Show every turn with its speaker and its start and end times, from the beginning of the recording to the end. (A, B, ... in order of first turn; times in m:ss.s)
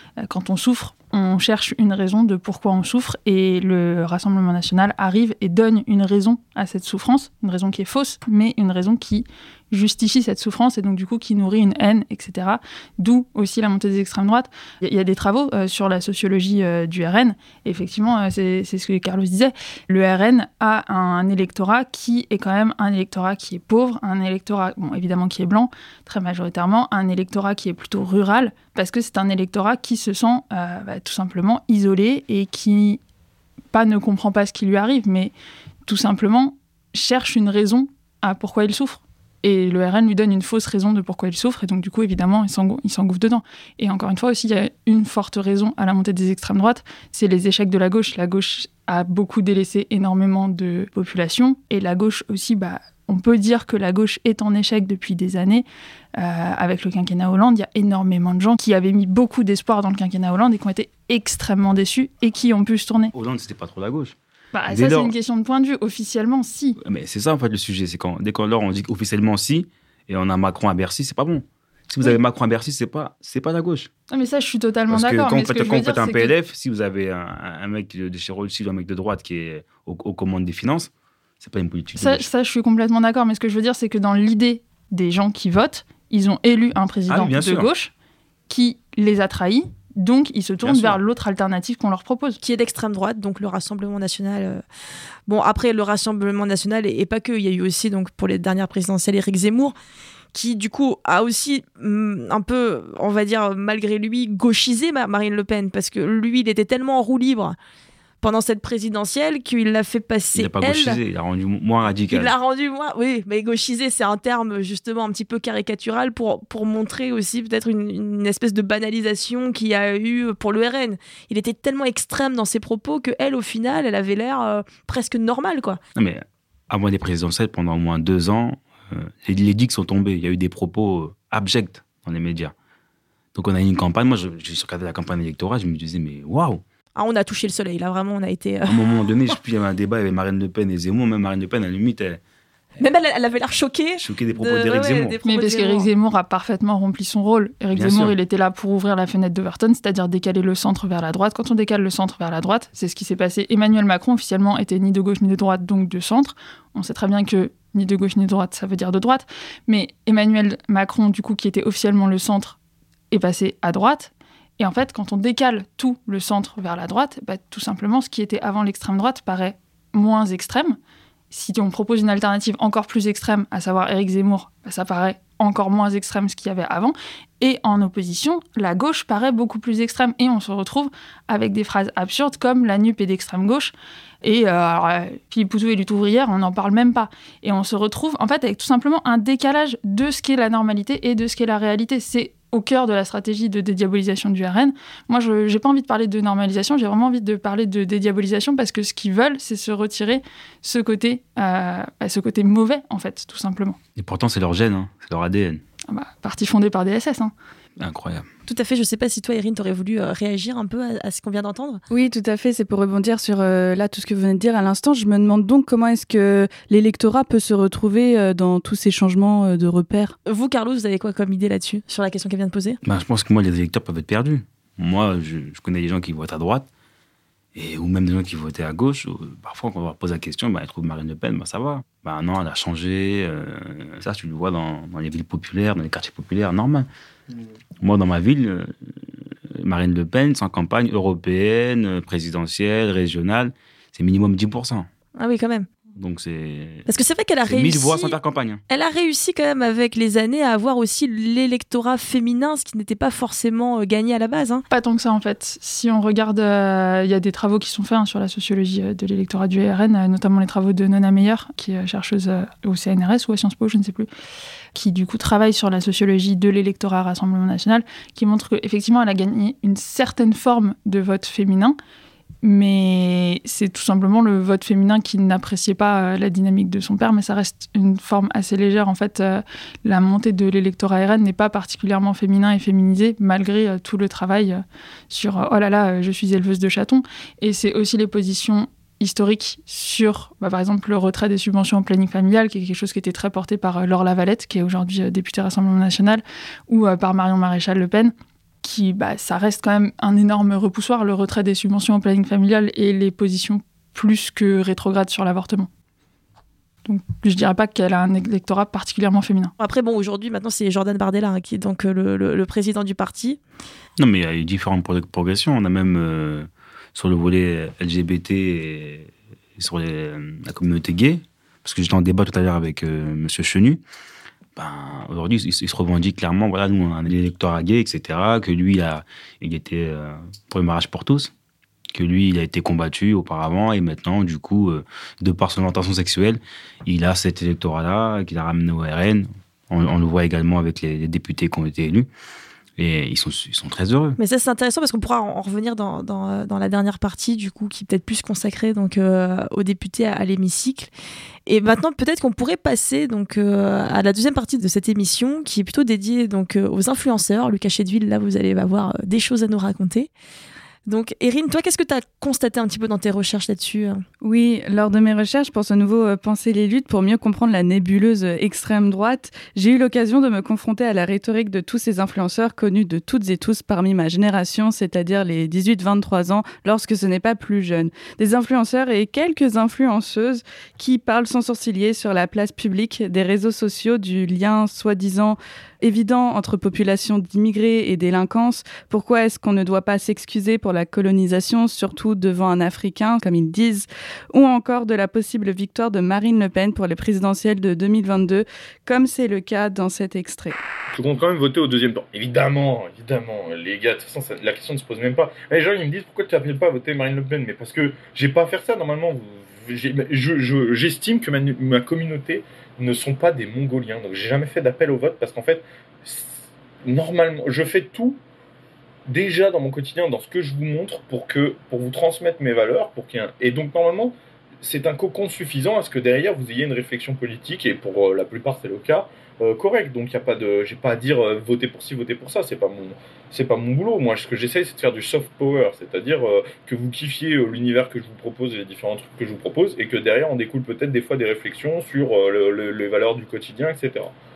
0:00.2-0:33.0 A
0:33.7-0:35.3 A
0:35.9-0:55.6 A
0:56.2-1:03.1 A
1:03.1-1:04.1 B
1:04.5-1:06.8 A
1:04.7-1:05.1 B
1:06.8-1:13.9 B
1:14.1-1:16.3 A
1:14.9-1:22.3 B
1:22.0-1:27.9 A
1:27.1-1:27.7 B
1:28.5-1:32.4 A
1:30.6-1:31.0 B
1:32.4-1:34.6 C
1:35.3-1:39.8 C
1:40.3-1:47.6 C
1:48.2-1:51.0 C
1:50.4-1:52.3 B
1:52.1-2:05.8 C
2:06.0-2:12.5 B
2:13.4-2:16.6 B
2:17.0-2:19.4 C
2:18.6-2:22.2 B
2:22.8-2:25.9 C
2:24.0-2:25.2 B
2:25.2-2:42.6 A
2:27.7-2:28.1 B
2:43.1-2:50.8 A
2:51.3-3:23.8 A
3:24.0-3:25.6 B
3:25.9-3:27.3 A
3:27.8-3:28.3 B
3:28.5-3:31.8 C
3:31.9-3:40.1 D
3:40.2-3:42.8 C
3:42.8-3:46.7 B
3:47.5-3:56.9 B
3:57.8-3:58.7 B
3:59.5-4:04.9 B
4:05.2-4:05.7 C
4:06.0-4:06.9 B
4:06.9-4:08.2 C
4:07.5-4:08.6 B
4:08.7-4:14.6 C
4:14.7-4:24.1 A
4:24.8-4:31.8 A
4:32.4-5:05.7 A
5:06.9-5:09.5 A
5:09.6-5:13.4 C
5:14.0-5:23.8 B
5:24.6-5:31.3 B
5:31.9-5:42.1 B
5:42.8-5:44.2 B
5:44.2-5:50.9 C
5:51.5-6:00.1 C
6:00.9-6:04.0 C
6:04.2-6:40.6 D
6:40.9-6:58.2 E
6:59.1-7:24.1 E